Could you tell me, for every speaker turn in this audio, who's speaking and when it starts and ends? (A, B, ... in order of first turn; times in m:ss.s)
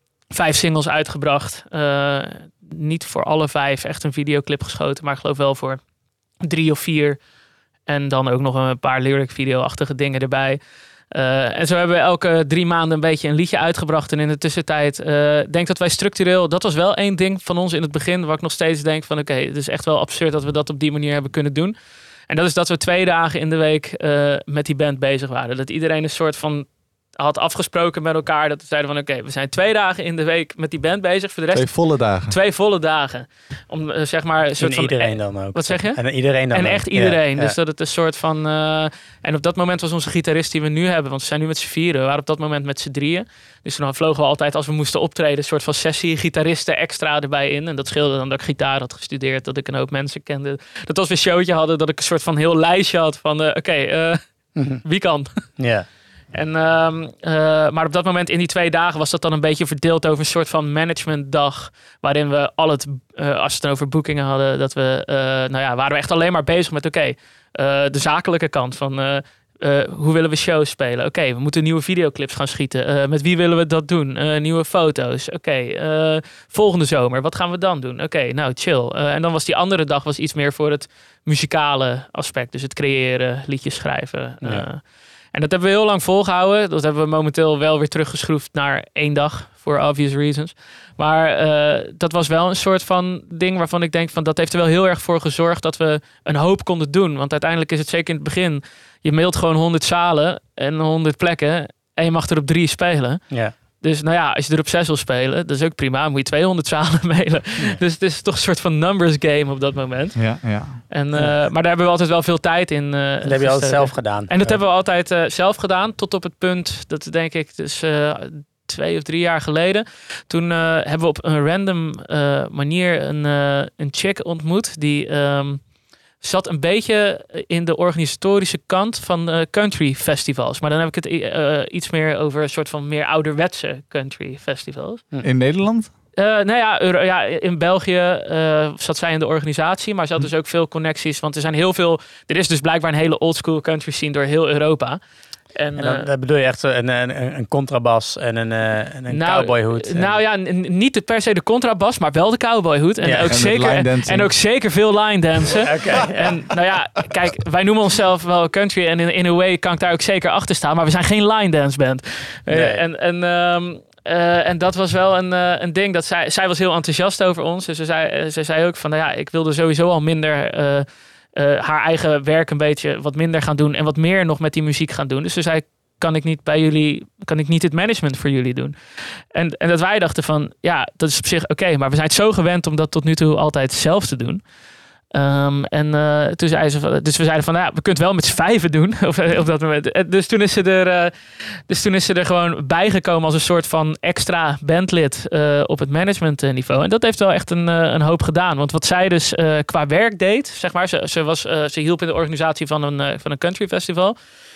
0:00.3-0:05.8 A
0:06.4-0:07.2 A
0:07.9-0:10.6 A
0:11.1-0:21.8 A
0:22.3-0:54.2 A
0:31.5-0:32.4 B
0:34.6-0:37.6 C
0:54.6-0:54.8 C
0:54.8-0:55.5 A
0:55.6-0:55.9 C
0:56.3-1:24.8 A
1:24.4-1:24.7 C
1:25.3-2:05.6 A
1:50.2-1:50.8 B
1:53.2-1:54.6 C
2:06.2-2:15.0 A
2:15.2-2:15.9 B
2:16.2-2:25.0 A
2:25.6-2:26.1 A
2:25.8-2:30.2 C
2:29.1-2:58.8 A
2:33.0-2:33.3 C
2:33.3-2:34.3 B
2:35.6-2:36.4 C
2:42.5-2:42.8 C
2:59.3-3:04.4 A
3:05.1-3:11.1 A
3:11.7-3:24.1 A